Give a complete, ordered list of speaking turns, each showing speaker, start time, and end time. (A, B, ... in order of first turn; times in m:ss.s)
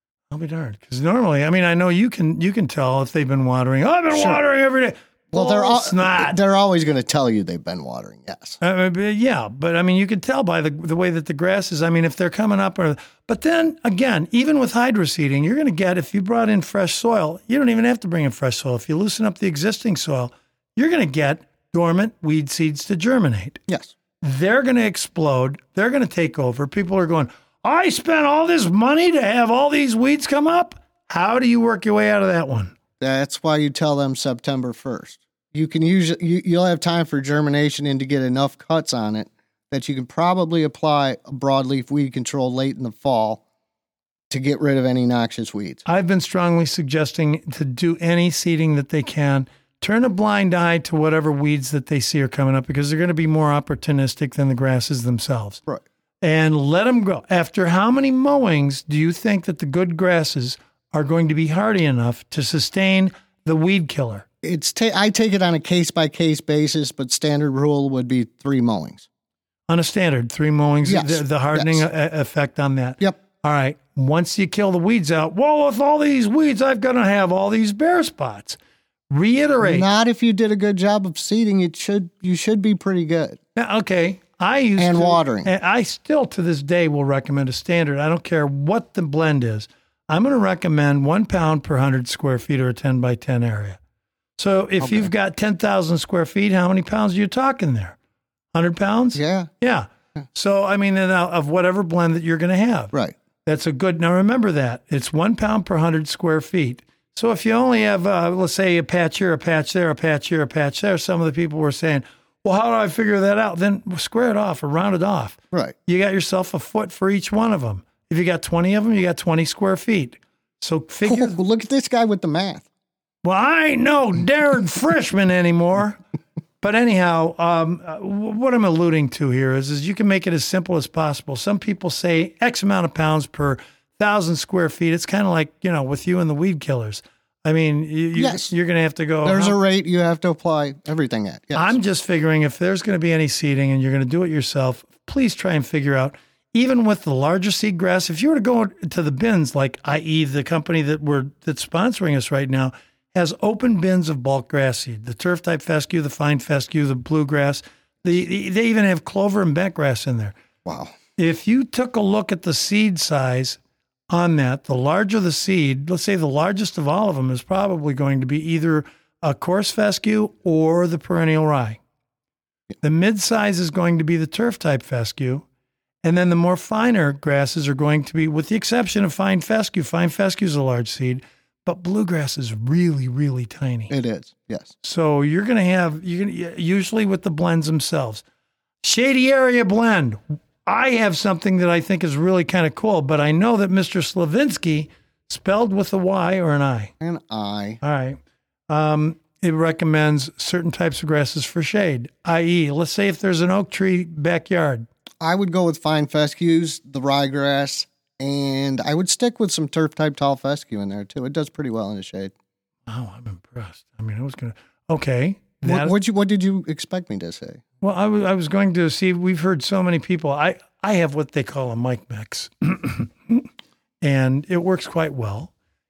0:00.3-0:06.4 A
0:04.1-0:04.4 B
0:05.3-0:08.6 B
0:08.6-0:23.6 A
0:24.2-0:32.7 A
0:33.0-0:43.4 B
0:44.3-0:45.8 B
0:45.8-0:55.6 A
0:56.2-1:04.2 A
1:04.4-1:09.0 B
1:09.7-1:18.6 A
1:10.8-1:11.9 B
1:19.1-1:19.9 A
1:19.6-1:23.4 B
1:23.6-1:33.8 A
1:24.8-1:25.5 B
1:34.4-1:38.0 A
1:38.5-1:42.9 A
1:39.1-1:39.5 B
1:43.4-2:01.4 A
2:01.0-2:02.6 B
2:03.2-2:06.0 A
2:06.6-2:19.6 A
2:18.2-2:18.5 B
2:19.2-2:21.8 B
2:21.5-2:40.3 A
2:40.6-2:40.9 B
2:41.2-2:43.6 A
2:44.1-2:51.8 A
2:52.8-2:55.4 A
2:56.0-3:03.9 A
3:03.9-3:04.7 B
3:04.8-3:08.2 A
3:08.8-3:16.9 A
3:17.0-3:17.8 B
3:17.8-3:24.9 A
3:25.2-3:32.3 B
3:32.9-3:35.9 A
3:35.6-3:37.6 B
3:37.8-3:43.5 A
3:44.0-3:45.5 A